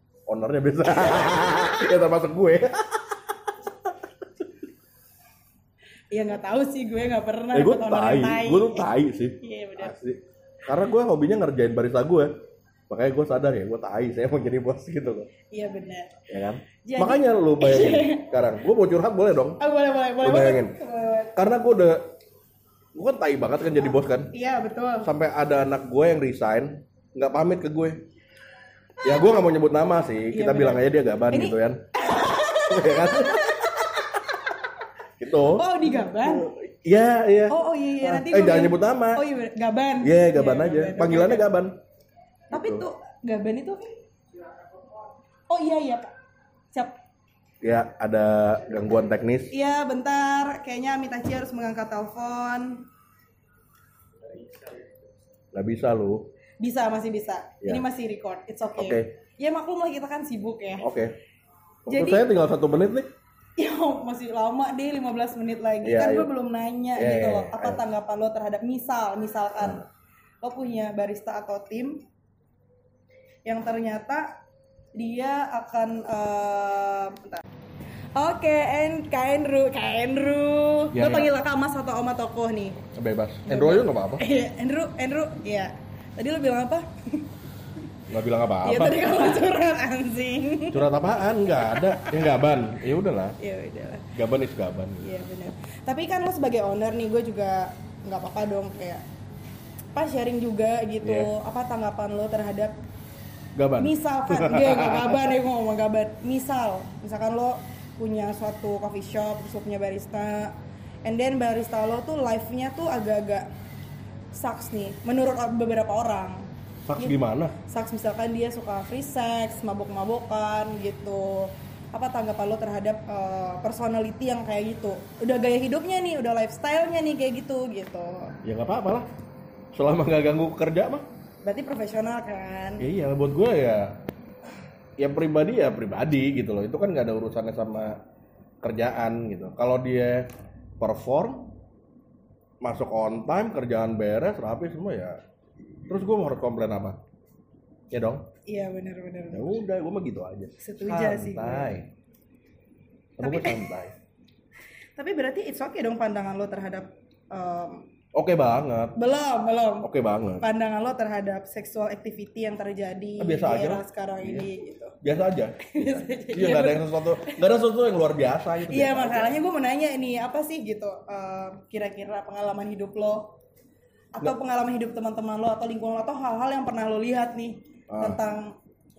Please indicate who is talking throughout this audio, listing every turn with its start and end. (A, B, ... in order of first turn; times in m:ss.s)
0:00.3-0:03.5 A
0:06.1-0:08.9 B
0:07.5-0:12.3 A
0:09.4-0:09.9 B
0:12.9-0:15.3 A
0:15.5-0:16.1 B
0:16.3-0:19.6 A
0:16.8-0:18.3 B
0:19.6-0:21.3 B
0:20.2-0:20.8 A
0:21.3-0:22.1 A
0:22.9-0:24.3 A
0:24.3-0:25.1 B
0:25.0-0:28.0 A
0:29.0-0:31.8 A
0:30.3-0:34.5 B
0:32.5-0:33.8 A
0:35.2-0:39.2 A
0:35.5-0:36.5 B
0:37.5-0:41.5 B
0:40.0-0:41.8 A
0:42.5-0:43.8 B
0:42.5-0:42.8 A
0:45.5-0:46.1 B
0:47.6-0:49.5 A
0:49.5-0:52.8 B
0:55.5-0:56.3 A
0:56.6-1:00.9 B
0:58.8-0:59.1 A
1:00.8-1:01.1 A
1:01.9-1:02.2 B
1:01.9-1:03.1 A
1:03.6-1:09.8 B
1:05.8-1:06.3 A
1:07.0-1:07.8 A
1:09.6-1:09.8 A
1:10.4-1:12.0 B
1:13.4-1:14.3 B
1:14.9-1:17.4 B
1:18.1-1:22.8 B
1:20.9-1:21.3 A
1:22.8-1:24.2 A
1:23.5-1:27.3 B
1:28.1-1:29.3 A
1:28.6-1:32.2 B
1:30.7-1:33.4 A
1:33.4-1:34.1 B
1:34.1-1:35.1 A
1:35.0-1:39.0 B
1:39.9-1:42.7 B
1:41.0-1:41.3 A
1:43.6-1:45.3 A
1:43.8-1:50.5 B
1:51.0-1:53.5 B
1:54.3-1:57.1 B
1:56.9-1:57.5 A
1:57.7-2:08.3 B
2:08.4-2:09.1 A
2:09.7-2:11.1 A
2:11.4-2:12.9 B
2:12.8-2:14.0 A
2:15.0-2:18.0 A
2:18.6-2:20.3 A
2:20.8-2:21.5 A
2:22.6-2:25.2 A
2:25.9-2:27.0 A
2:27.9-2:28.2 A
2:28.4-2:29.6 B
2:29.3-2:31.9 A
2:30.6-2:31.8 B
2:33.2-2:33.6 B
2:33.2-2:33.9 A
2:35.0-2:37.9 B
2:38.1-2:39.0 A
2:38.9-2:39.9 B
2:39.8-2:40.4 A
2:40.4-2:45.0 B
2:43.2-2:44.5 A
2:45.0-2:49.4 A
2:45.6-2:47.4 B
2:48.7-2:53.3 B
2:54.1-2:58.5 B
2:57.9-2:58.2 A